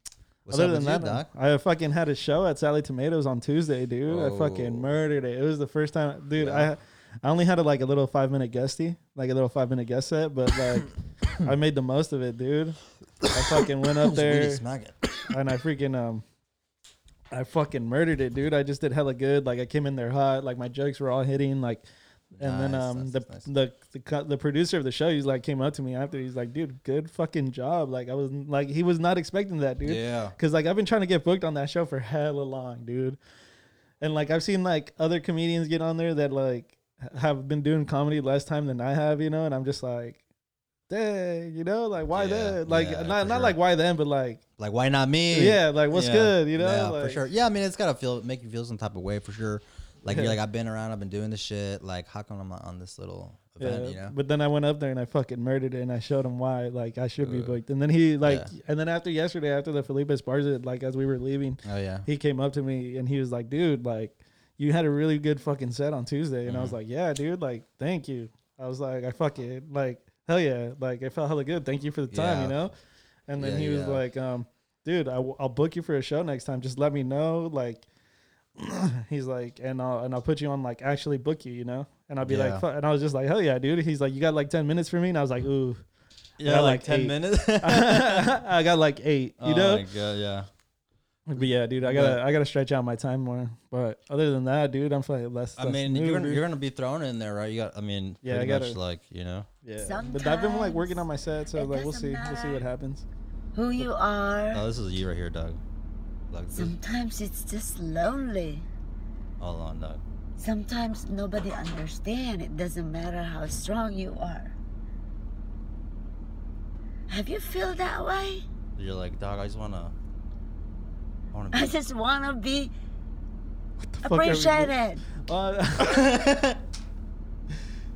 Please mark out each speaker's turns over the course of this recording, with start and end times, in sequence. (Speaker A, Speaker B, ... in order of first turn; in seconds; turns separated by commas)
Speaker A: 0.5-1.3, Speaker B: 0.5-12.8, Speaker A: 4.1-4.9, Speaker A: 6.4-6.7, Speaker A: 13.2-15.2, Speaker B: 13.3-14.6, Speaker B: 15.3-16.2, Speaker B: 17.3-21.9, Speaker A: 22.4-23.5, Speaker B: 22.4-33.2, Speaker A: 29.8-30.4, Speaker B: 34.0-40.2, Speaker B: 40.9-44.4, Speaker A: 42.1-43.6, Speaker A: 44.6-54.1, Speaker B: 45.3-47.3, Speaker B: 50.1-50.4, Speaker B: 53.6-72.7, Speaker A: 57.2-57.6, Speaker A: 58.2-58.5, Speaker A: 61.6-62.1, Speaker A: 66.5-66.8, Speaker A: 72.1-72.6, Speaker B: 73.3-77.9, Speaker A: 73.4-74.0, Speaker B: 78.6-85.8, Speaker A: 82.2-82.7, Speaker A: 86.4-88.4, Speaker B: 86.4-89.9, Speaker A: 89.4-90.5, Speaker B: 91.3-96.4, Speaker A: 91.8-92.2, Speaker A: 95.6-99.5, Speaker B: 98.2-98.8, Speaker B: 99.6-103.0, Speaker C: 99.8-102.6, Speaker C: 103.5-104.7, Speaker A: 104.5-105.6, Speaker A: 106.3-106.8, Speaker C: 106.5-108.7, Speaker A: 109.4-110.0, Speaker C: 110.4-114.5, Speaker C: 117.1-118.4, Speaker A: 118.8-119.9, Speaker A: 121.3-121.7, Speaker C: 121.5-122.7, Speaker B: 123.8-126.1, Speaker C: 124.0-125.0, Speaker A: 125.8-126.6